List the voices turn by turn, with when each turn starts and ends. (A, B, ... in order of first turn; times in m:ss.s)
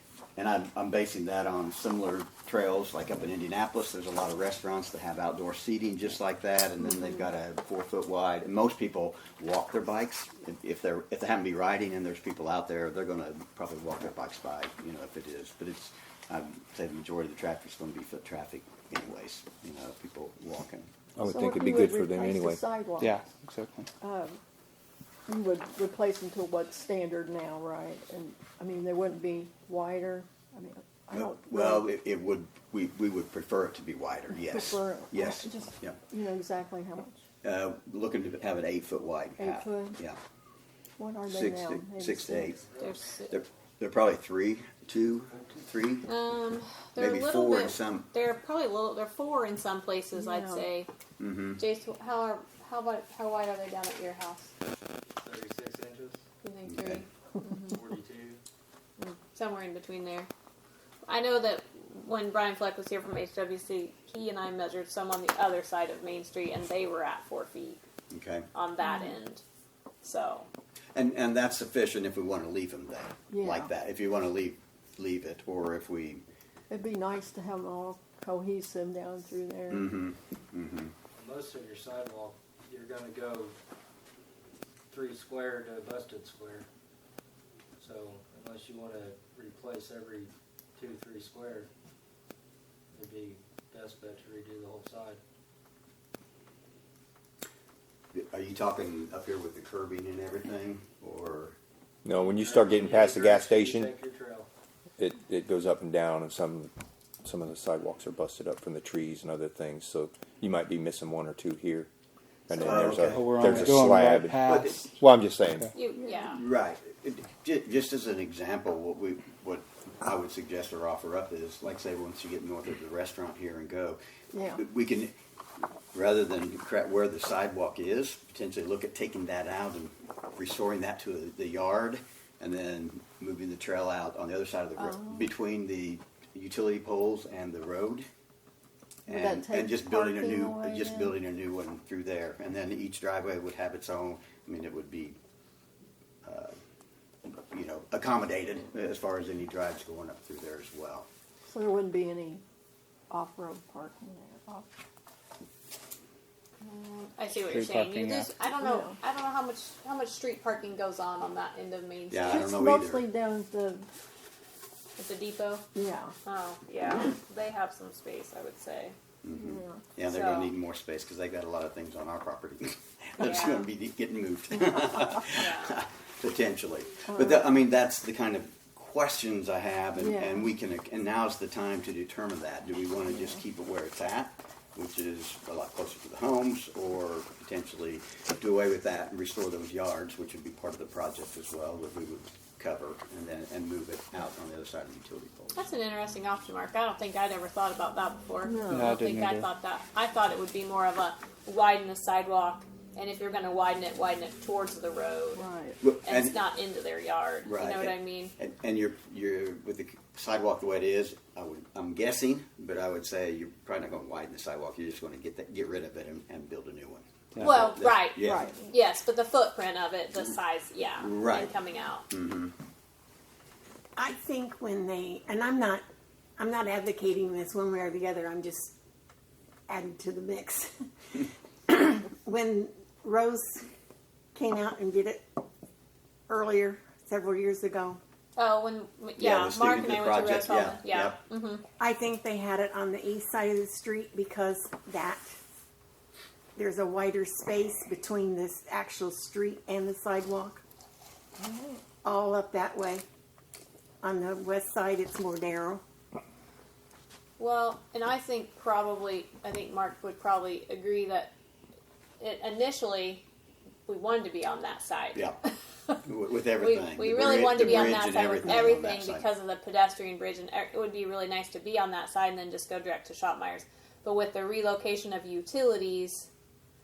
0:00.4-0:20.8 A
0:21.2-0:22.6 B
0:21.2-0:23.2 C
0:23.0-0:23.9 D
0:24.0-0:24.4 C
0:25.3-0:31.9 C
0:31.1-0:36.0 A
0:34.3-0:37.2 C
0:37.4-0:40.2 A
0:39.4-0:40.0 C
0:41.0-0:42.6 C
0:41.2-0:42.6 A
0:42.8-0:43.3 E
0:43.3-0:46.1 A
0:46.1-0:50.9 E
0:47.0-0:48.1 A
0:50.1-0:50.7 C
0:51.2-0:51.6 A
0:51.6-0:54.5 E
0:55.2-0:56.2 F
0:56.4-0:57.0 E
0:56.7-0:57.0 A
0:57.7-0:58.4 F
0:59.0-1:00.3 E
1:01.0-1:07.8 E
1:08.1-1:08.5 A
1:08.5-1:09.4 E
1:08.8-1:09.1 C
1:10.0-1:10.5 E
1:10.9-1:16.2 A
1:13.3-1:13.7 C
1:16.7-1:19.9 C
1:19.7-1:20.9 A
1:21.1-1:23.6 F
1:24.9-1:26.7 F
1:27.8-1:31.7 F
1:32.9-1:35.2 F
1:38.1-1:41.6 A
1:42.0-1:43.9 B
1:42.2-1:44.5 F
1:45.0-1:46.7 B
1:47.2-1:51.9 B
1:52.5-1:55.7 B
1:52.6-1:54.9 A
1:52.9-1:54.9 D
1:55.7-1:56.4 E
1:56.0-1:56.3 C
1:56.3-2:05.1 A
2:04.3-2:04.6 C
2:05.9-2:18.1 A
2:14.8-2:15.3 C
2:19.0-2:25.2 A
2:19.1-2:21.2 C
2:26.2-2:26.5 A
2:27.3-2:31.1 A
2:31.4-2:32.4 C
2:33.1-2:34.7 C
2:36.6-2:42.5 E
2:37.4-2:38.3 D
2:38.6-2:39.0 C
2:42.1-2:43.1 A
2:42.3-2:43.9 C
2:45.0-2:45.6 E
2:45.7-2:46.1 C
2:46.2-2:48.9 E
2:49.2-3:15.6 A
2:49.4-2:49.8 C
2:50.0-2:50.5 E
2:53.2-2:53.7 E
2:55.3-2:55.8 E
2:57.1-2:57.5 C
3:00.0-3:00.5 C
3:03.1-3:03.4 C
3:15.5-3:25.4 E
3:18.4-3:18.9 C
3:18.7-3:19.5 D
3:25.3-3:25.8 C
3:25.8-3:26.4 A
3:26.0-3:28.3 E
3:27.4-3:38.5 A
3:37.3-3:37.6 D
3:37.4-3:42.0 E
3:38.2-3:38.7 C
3:41.0-3:41.5 A
3:42.1-3:42.5 A
3:44.0-3:45.8 G
3:46.4-3:48.7 G
3:49.7-3:53.6 G
3:54.3-3:55.2 G
3:56.3-3:58.0 G
3:58.4-4:01.6 E
3:59.2-4:01.2 A
4:01.8-4:05.3 G
4:06.6-4:10.6 G
4:11.4-4:11.8 C
4:12.0-4:13.0 G
4:14.0-4:15.8 G
4:17.4-4:21.3 E
4:22.2-4:23.2 E
4:23.9-4:25.3 E
4:26.0-4:29.3 A
4:26.6-4:36.3 E